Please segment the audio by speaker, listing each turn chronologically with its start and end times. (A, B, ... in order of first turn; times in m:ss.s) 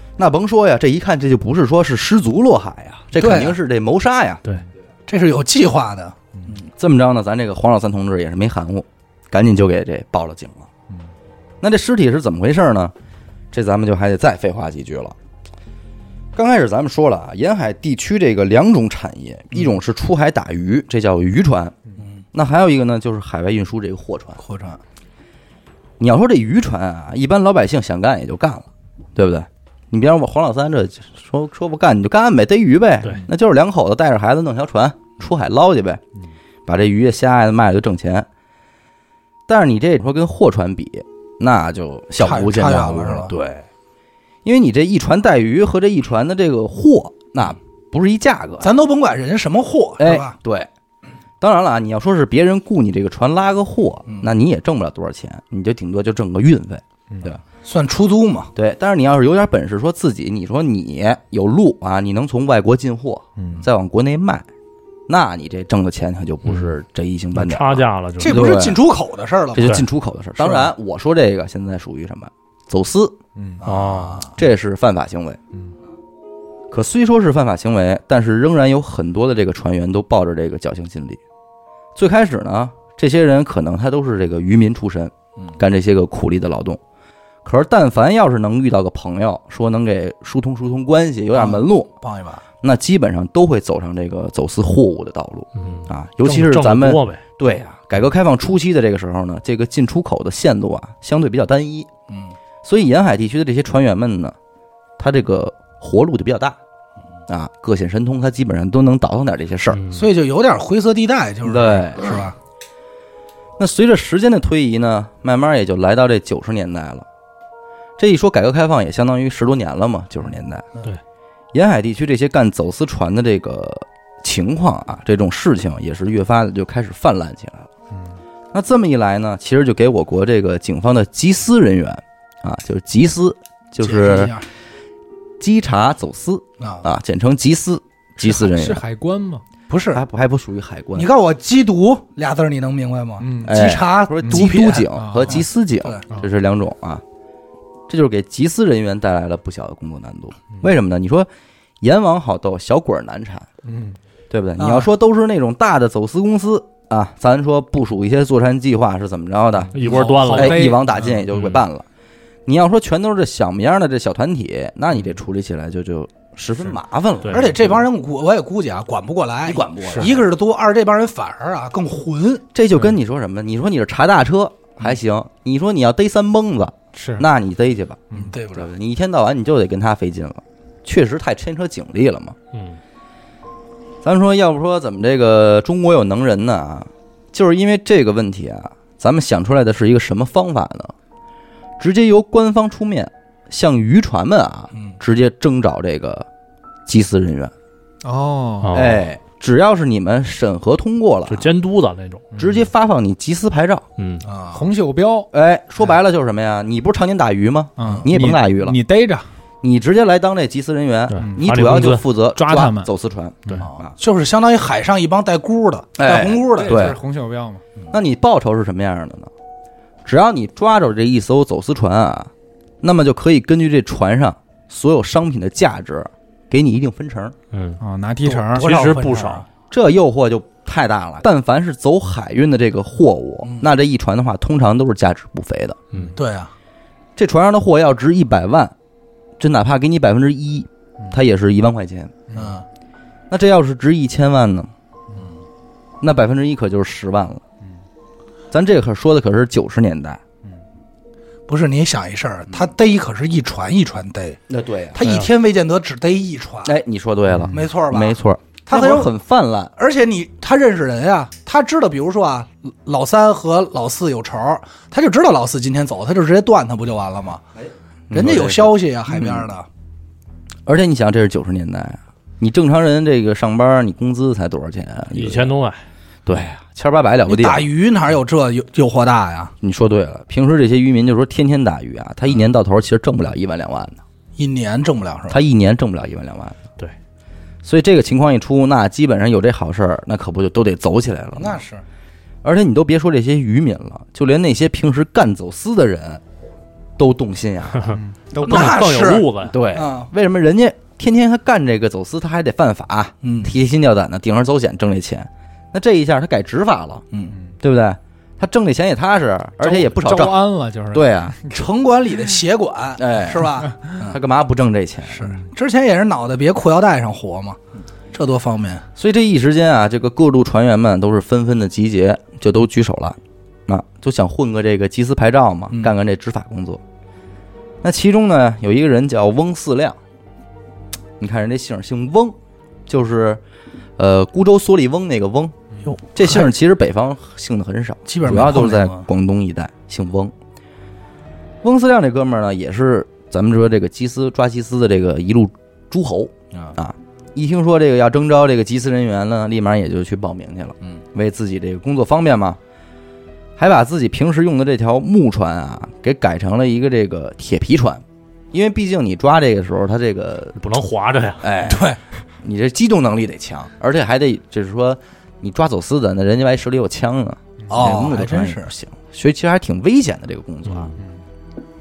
0:00.2-0:04.4 A
0:03.2-0:03.6 B
0:05.1-0:06.2 B
0:06.8-0:10.7 A
0:11.6-0:12.9 A
0:13.5-0:15.2 A
0:16.3-0:21.7 A
0:22.3-0:24.4 A
0:24.4-0:24.8 B
0:26.0-0:36.0 A
0:36.7-0:38.3 A
0:39.5-0:43.6 A
0:42.2-0:43.3 B
0:44.4-0:48.7 A
0:48.6-0:50.4 B
0:50.0-0:50.7 A
0:51.4-0:57.4 A
0:57.6-0:58.5 B
0:58.5-1:04.4 A
1:03.4-1:03.6 C
1:05.1-1:08.8 A
1:07.3-1:08.6 D
1:08.2-1:09.8 B
1:09.5-1:13.2 A
1:10.4-1:10.7 B
1:13.6-1:14.3 B
1:13.6-1:14.3 D
1:14.3-1:15.4 A
1:16.7-1:21.2 A
1:21.9-1:26.8 A
1:27.4-1:31.9 A
1:31.3-1:32.4 B
1:32.6-1:41.9 A
1:35.6-1:37.2 D
1:42.1-1:42.3 B
1:42.6-1:44.3 A
1:45.0-1:46.6 A
1:47.3-1:49.8 A
1:49.7-1:50.1 D
1:49.9-1:52.3 B
1:51.4-1:52.2 A
1:53.6-1:57.0 A
1:58.0-2:00.7 A
2:01.5-2:07.7 A
2:08.5-2:14.4 A
2:13.8-2:14.5 B
2:15.4-2:18.8 A
2:16.6-2:16.8 B
2:18.2-2:19.4 C
2:19.7-2:20.0 B
2:19.9-2:21.1 A
2:21.0-2:26.0 B
2:23.2-2:23.7 C
2:23.4-2:27.0 A
2:24.2-2:25.4 C
2:27.9-2:31.3 A
2:31.8-2:33.5 A
2:33.6-2:34.0 C
2:34.3-2:41.8 A
2:39.7-2:41.1 C
2:39.7-2:41.5 D
2:42.4-2:47.4 A
2:47.2-2:47.7 D
2:47.3-2:52.4 B
2:49.4-2:50.2 A
2:52.5-3:02.4 A
2:56.9-2:57.2 C
2:58.1-2:58.7 B
3:02.5-3:02.8 D
3:04.0-3:10.9 A
3:11.8-3:16.3 A
3:16.8-3:17.5 A
3:18.0-3:18.9 C
3:18.6-3:19.0 D
3:18.7-3:21.5 A
3:21.3-3:22.4 D
3:22.4-3:23.8 A
3:24.0-3:24.3 D
3:24.2-3:24.7 B
3:24.5-3:25.3 C
3:25.3-3:28.8 A
3:27.8-3:29.3 C
3:29.6-3:33.9 A
3:31.1-3:32.0 D
3:31.2-3:31.8 C
3:32.3-3:32.9 C
3:33.6-3:36.9 B
3:36.0-3:37.0 A
3:36.5-3:37.6 C
3:37.9-3:39.3 A
3:40.0-3:42.3 A
3:42.8-3:47.3 A
3:47.5-3:47.8 D
3:47.8-3:48.8 C
3:48.2-3:49.4 B
3:48.6-3:49.4 D
3:49.7-3:55.8 A
3:53.4-3:53.7 B
3:56.2-3:56.5 B
3:57.2-3:58.7 A
3:59.4-4:02.2 A
4:02.3-4:02.6 B
4:03.3-4:04.7 A
4:06.0-4:07.4 A
4:08.5-4:10.2 A
4:11.5-4:14.4 B
4:14.5-4:15.2 A
4:14.9-4:16.7 B
4:15.0-4:15.3 D
4:16.6-4:19.7 A
4:17.5-4:19.1 B
4:19.8-4:27.4 B
4:28.1-4:29.5 A
4:28.1-4:29.7 B
4:30.6-4:35.5 A
4:35.1-4:35.8 D
4:36.2-4:37.7 A
4:37.3-4:39.5 B
4:39.6-4:44.0 A
4:44.4-4:45.4 B
4:45.3-4:46.6 A
4:47.6-4:51.6 A
4:51.4-4:51.8 B
4:52.4-4:56.2 A
4:57.0-4:58.0 A
4:57.8-4:59.6 D
4:57.9-4:58.9 C
4:58.4-5:00.1 B
4:59.4-5:07.0 A
5:03.2-5:03.5 B
5:07.1-5:07.4 B
5:07.6-5:10.4 A
5:09.6-5:11.6 C
5:10.9-5:11.4 A
5:11.5-5:14.2 B
5:13.0-5:15.3 A
5:15.1-5:17.6 B
5:18.1-5:18.8 B
5:19.0-5:26.8 A
5:27.8-5:30.0 A
5:31.2-5:32.4 A
5:32.9-5:33.4 A
5:34.0-5:35.5 A
5:35.8-5:36.5 B
5:36.1-5:40.3 A
5:38.0-5:39.1 B
5:41.6-5:52.6 A
5:53.6-6:00.6 A
6:00.6-6:01.4 D
6:01.4-6:10.9 A
6:01.6-6:02.0 B
6:07.7-6:08.7 B